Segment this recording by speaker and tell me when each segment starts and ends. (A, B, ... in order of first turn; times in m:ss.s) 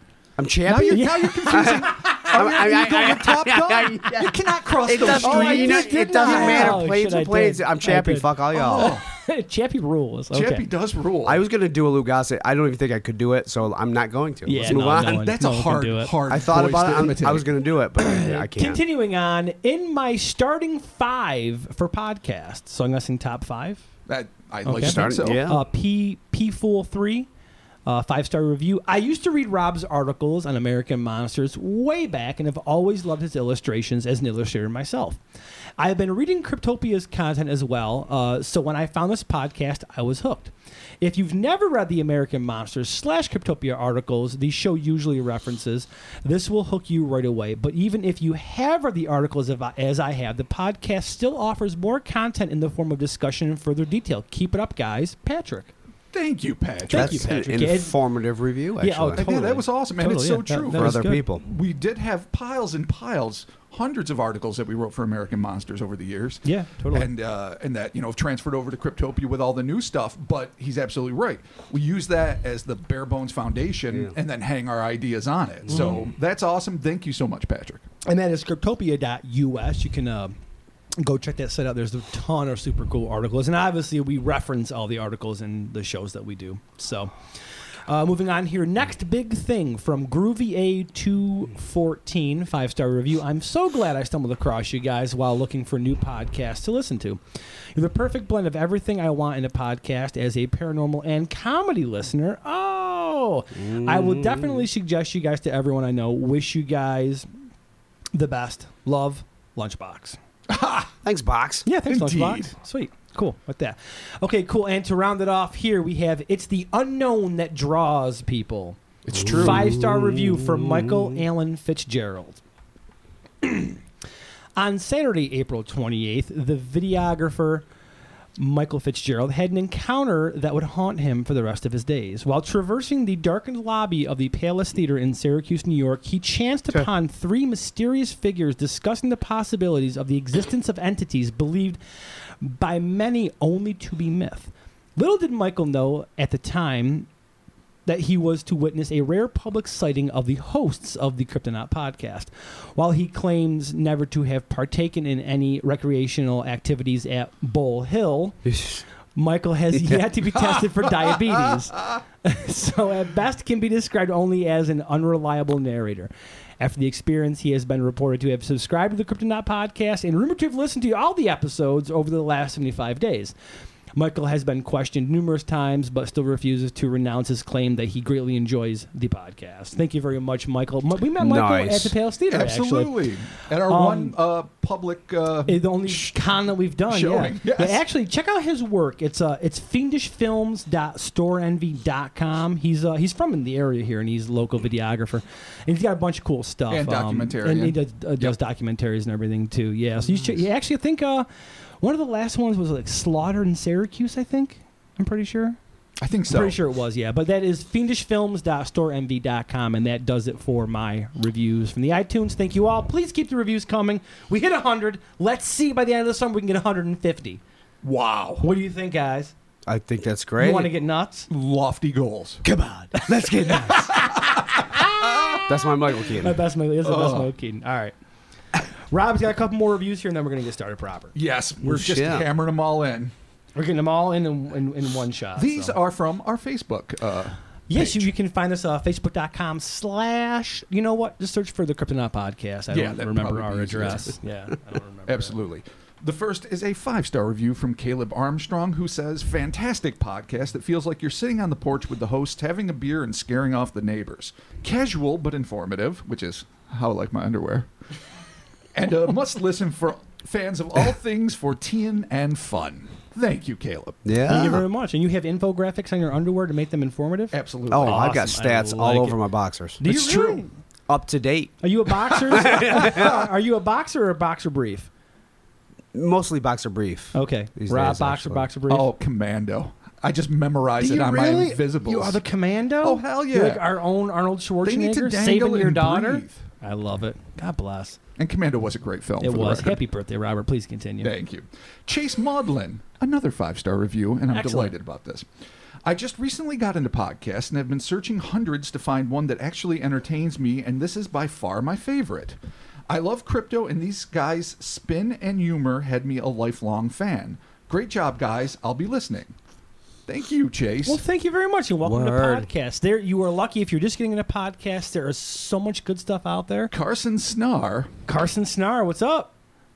0:00.4-0:08.9 A
0:00.6-0:06.8 B
0:00.9-0:02.2 C
0:05.0-0:10.6 C
0:08.5-0:09.0 B
0:10.3-0:11.4 B
0:11.2-0:15.2 A
0:14.4-0:16.1 C
0:14.6-0:17.5 B
0:16.3-0:18.8 A
0:18.0-0:23.8 C
0:24.1-0:25.5 B
0:24.6-0:27.3 C
0:24.8-0:25.6 A
0:27.9-0:35.2 C
0:35.8-0:55.7 C
0:56.1-0:57.3 B
0:56.9-0:58.0 C
0:56.9-0:59.2 A
0:58.8-1:01.2 C
0:59.2-1:17.8 B
1:00.7-1:01.4 A
1:06.4-1:07.1 C
1:15.7-1:16.0 A
1:15.7-1:16.0 C
1:18.0-1:20.3 C
1:21.0-1:27.1 C
1:27.9-1:37.2 C
1:37.7-1:47.3 C
1:43.5-1:44.6 A
1:48.1-1:50.2 C
1:50.5-1:50.9 B
1:51.0-1:51.7 A
1:51.6-2:02.4 C
1:51.9-1:52.5 B
1:59.0-1:59.7 B
1:59.1-2:01.2 A
2:03.4-2:03.8 C
2:04.6-2:07.6 C
2:08.4-2:21.8 C
2:22.4-2:27.1 C
2:27.8-2:38.4 C
2:38.4-2:38.8 A
2:39.1-2:53.3 C
2:54.0-3:03.0 C
3:01.2-3:01.9 A
3:02.3-3:06.2 B
3:03.6-3:04.2 C
3:05.5-3:21.3 C
3:06.9-3:07.8 B
3:16.7-3:18.4 B
3:21.8-3:25.6 C
3:26.0-3:26.6 B
3:26.3-3:37.4 C
3:37.8-3:38.5 B
3:38.4-3:39.3 C
3:39.6-3:40.7 A
3:40.4-3:41.3 C
3:41.3-3:42.4 B
3:42.4-3:43.9 A
3:43.0-3:44.1 C
3:43.7-3:45.4 B
3:44.7-3:47.9 C
3:45.4-3:46.4 A
3:46.8-3:47.3 B
3:48.7-3:51.1 C
3:51.1-3:53.1 B
3:51.6-3:52.2 A
3:53.6-3:55.8 C
3:55.4-3:58.1 B
3:57.7-4:05.3 C
4:02.7-4:04.1 B
4:05.1-4:17.7 B
4:18.7-4:24.6 B
4:24.0-4:24.6 A
4:24.2-4:29.2 C
4:27.3-4:28.2 B
4:27.7-4:29.8 A
4:29.8-4:30.5 C
4:29.8-4:30.4 B
4:30.9-4:31.5 A
4:31.6-4:34.9 C
4:32.1-4:33.2 B
4:32.3-4:33.1 A
4:35.9-4:38.5 A
4:37.1-4:38.9 C
4:38.7-4:42.2 B
4:40.8-4:48.0 C
4:42.8-4:43.6 B
4:44.6-4:46.4 B
4:48.2-4:49.8 B
4:49.2-4:51.1 C
4:51.0-4:55.3 B
4:54.3-4:54.7 C
4:55.8-5:02.4 B
5:02.9-5:09.3 B
5:10.0-5:11.0 B
5:10.8-5:16.7 C
5:11.8-5:12.5 A
5:16.7-5:17.9 B
5:18.1-5:19.3 C